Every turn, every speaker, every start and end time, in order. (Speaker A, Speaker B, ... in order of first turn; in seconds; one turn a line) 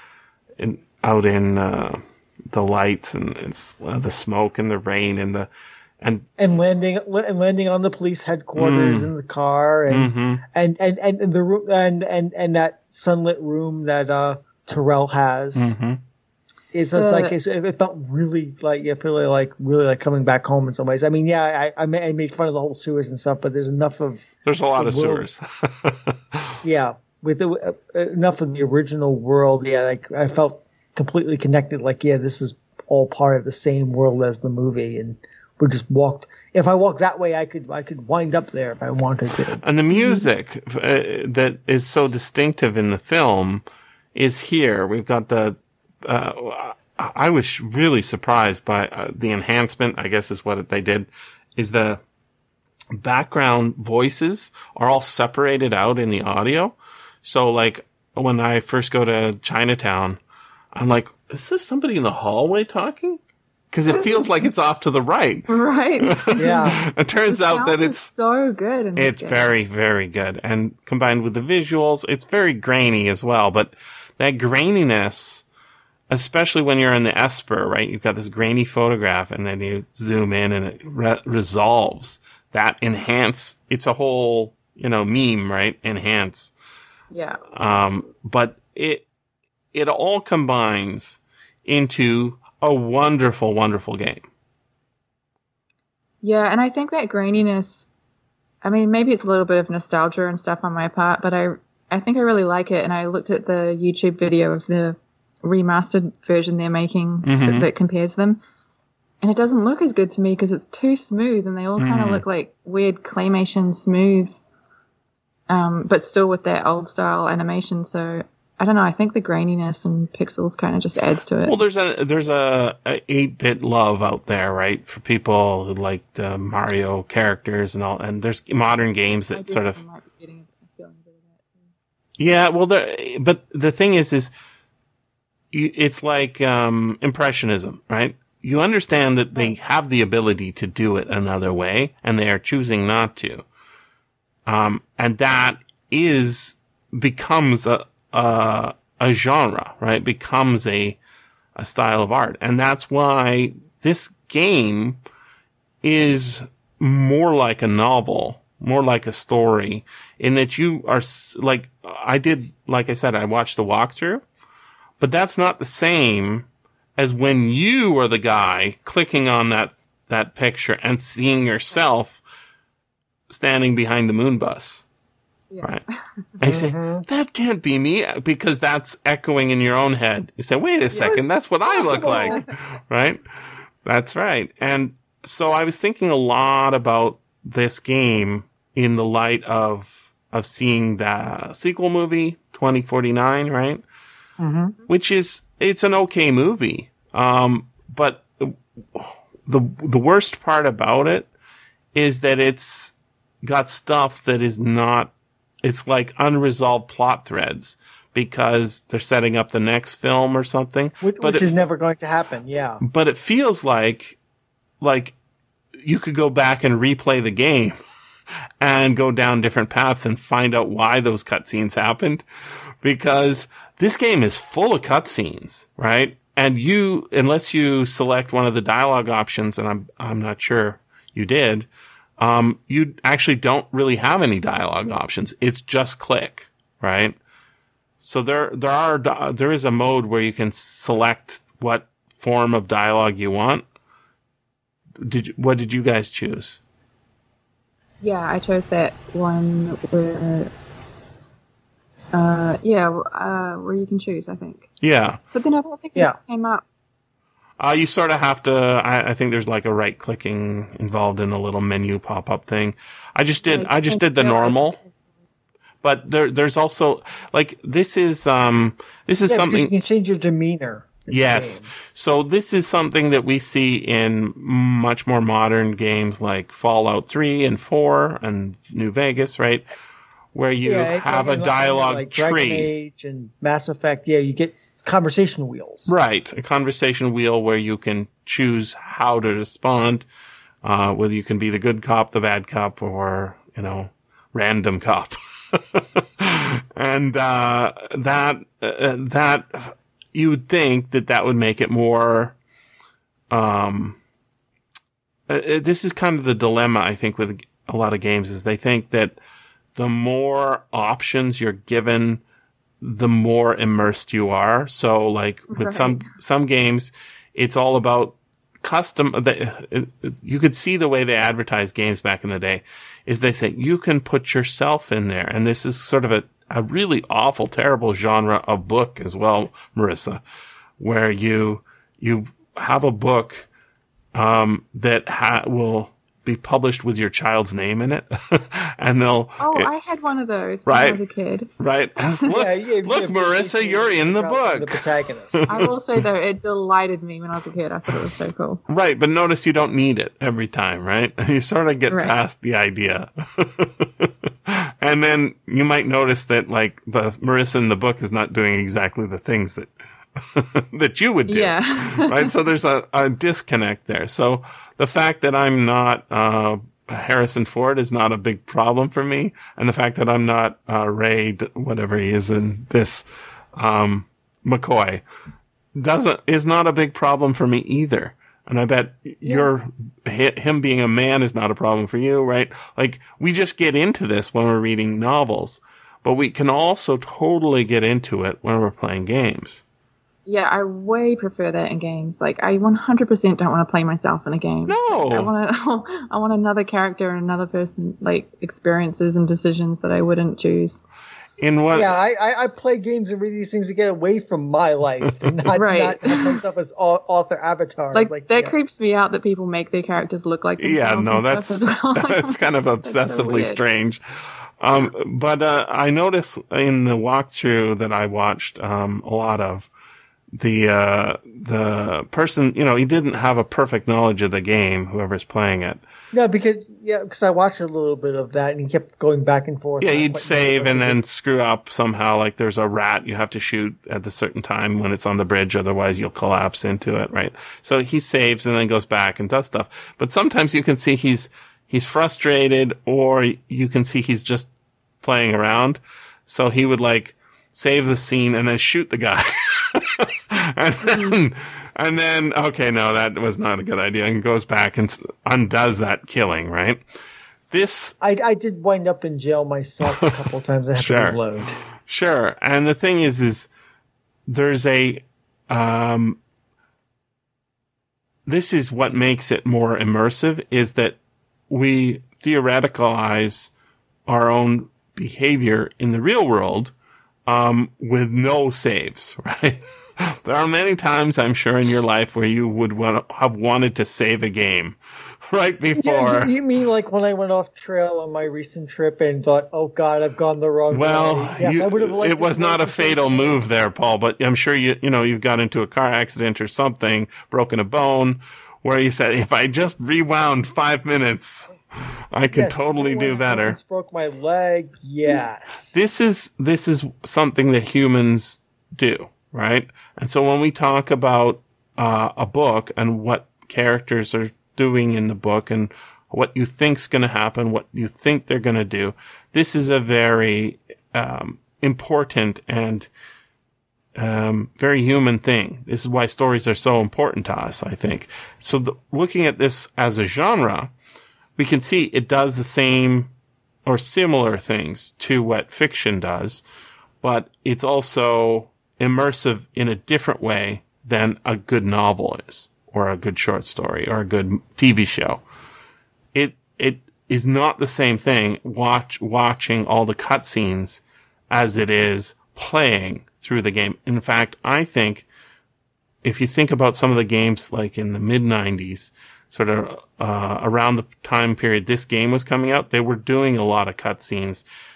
Speaker A: 0.6-5.5
Speaker A: 6.0-6.2
Speaker B: 6.4-15.7
Speaker A: 8.6-9.1
Speaker A: 9.9-10.4
Speaker A: 15.5-16.0
Speaker B: 16.7-25.2
Speaker C: 16.9-17.4
Speaker A: 24.4-26.6
Speaker B: 26.6-39.6
Speaker A: 39.6-43.6
Speaker C: 39.9-40.3
Speaker A: 44.1-52.0
Speaker A: 53.0-60.2
Speaker A: 60.7-63.2
Speaker A: 63.7-65.5
Speaker C: 65.5-69.5
Speaker A: 66.0-68.1
Speaker B: 66.4-66.8
Speaker A: 69.0-75.4
Speaker A: 76.1-86.5
Speaker C: 87.1-87.4
Speaker A: 87.5-89.0
Speaker A: 89.7-94.2
Speaker C: 96.2-97.9
Speaker C: 98.6-108.4
Speaker A: 107.2-107.7
Speaker C: 109.2-114.4
Speaker A: 111.8-112.2
Speaker C: 115.5-121.6
Speaker A: 121.4-129.8
Speaker C: 129.3-131.7
Speaker A: 132.2-134.3
Speaker A: 135.5-143.4
Speaker A: 144.4-151.0
Speaker A: 151.6-155.0
Speaker A: 155.8-164.2
Speaker A: 165.0-172.2
Speaker A: 173.3-174.8
Speaker C: 175.5-175.8
Speaker A: 176.4-183.2
Speaker B: 176.4-177.1
Speaker B: 180.9-182.4
Speaker C: 181.9-182.5
Speaker A: 183.8-193.8
Speaker B: 194.4-194.8
Speaker A: 194.9-201.3
Speaker A: 201.9-205.1
Speaker A: 205.6-211.6
Speaker B: 211.0-212.8
Speaker A: 212.8-214.2
Speaker A: 214.8-215.1
Speaker A: 215.8-217.8
Speaker A: 218.6-222.2
Speaker A: 222.8-231.7
Speaker A: 232.2-237.2
Speaker A: 238.0-243.6
Speaker A: 245.0-246.6
Speaker C: 248.0-250.5
Speaker C: 252.1-254.7
Speaker A: 254.8-255.2
Speaker C: 255.3-256.6
Speaker A: 257.6-264.8
Speaker C: 263.5-264.9
Speaker A: 265.8-269.7
Speaker B: 269.3-271.7
Speaker A: 271.1-279.6
Speaker A: 280.3-282.7
Speaker B: 280.6-285.9
Speaker A: 285.9-290.1
Speaker A: 290.6-302.4
Speaker A: 303.3-304.0
Speaker A: 305.3-309.2
Speaker A: 309.8-312.2
Speaker A: 312.8-330.2
Speaker C: 315.5-316.1
Speaker A: 330.8-333.5
Speaker A: 334.1-339.7
Speaker C: 339.4-341.5
Speaker A: 340.6-341.0
Speaker A: 341.6-346.0
Speaker B: 342.3-345.5
Speaker C: 345.5-348.6
Speaker A: 348.7-375.0
Speaker C: 351.9-352.1
Speaker C: 361.3-362.3
Speaker A: 375.7-389.6
Speaker C: 390.2-400.8
Speaker A: 394.7-395.3
Speaker A: 401.4-401.9
Speaker B: 401.7-408.5
Speaker A: 405.0-405.3
Speaker C: 405.5-406.4
Speaker C: 407.9-413.6
Speaker A: 410.6-414.0
Speaker A: 414.6-419.7
Speaker A: 420.3-425.8
Speaker B: 426.1-431.0
Speaker A: 429.8-444.5
Speaker A: 445.0-456.8
Speaker A: 457.5-457.9
Speaker B: 458.0-461.6
Speaker A: 460.8-463.5
Speaker A: 464.3-466.2
Speaker A: 468.2-471.0
Speaker A: 471.5-473.5
Speaker A: 474.1-476.7
Speaker A: 477.2-484.8
Speaker A: 485.3-486.3
Speaker B: 485.8-493.4
Speaker A: 490.7-503.6
Speaker B: 502.3-505.8
Speaker A: 505.7-522.9
Speaker A: 524.0-530.7
Speaker A: 531.4-533.1
Speaker A: 533.6-536.4
Speaker A: 537.0-545.2
Speaker A: 546.1-555.0
Speaker A: 556.0-564.4